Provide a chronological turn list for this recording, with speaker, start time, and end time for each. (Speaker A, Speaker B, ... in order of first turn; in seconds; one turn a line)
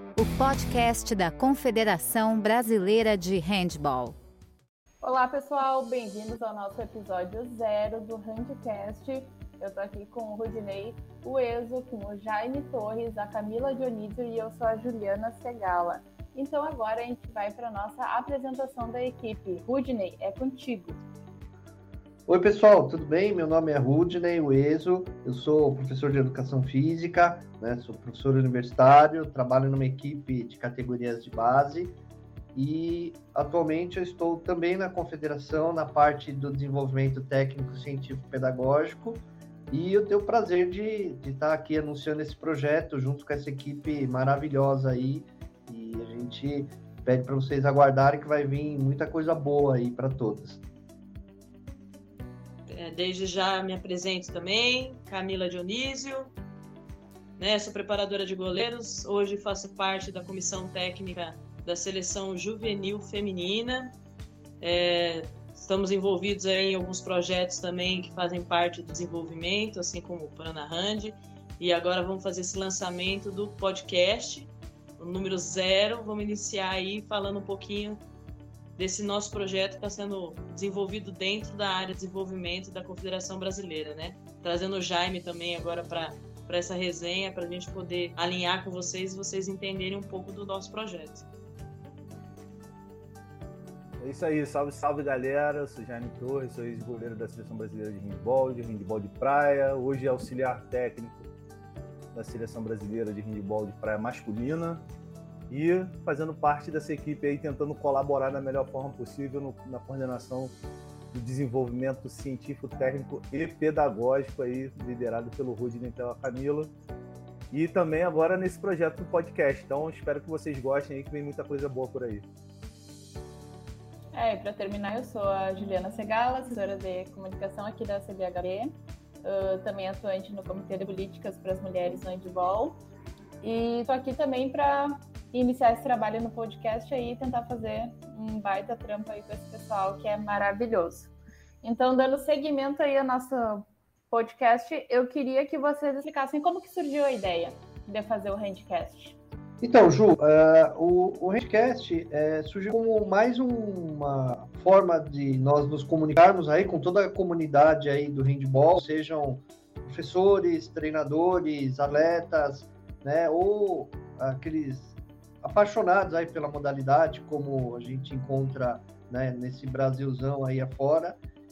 Speaker A: 0.1-4.2
Speaker B: 5.0-21.0
Speaker C: 22.3-31.9
Speaker C: 32.5-50.6
Speaker D: 52.7-56.3
Speaker D: 57.4-63.9
Speaker D: 64.6-78.0
Speaker D: 78.8-91.2
Speaker E: 94.0-101.3
Speaker E: 102.1-104.8
Speaker E: 105.5-110.5
Speaker E: 111.1-116.7
Speaker E: 117.5-122.2
Speaker B: 124.1-128.7
Speaker B: 129.2-132.8
Speaker B: 133.4-141.1
Speaker B: 141.6-149.2
Speaker C: 149.6-171.2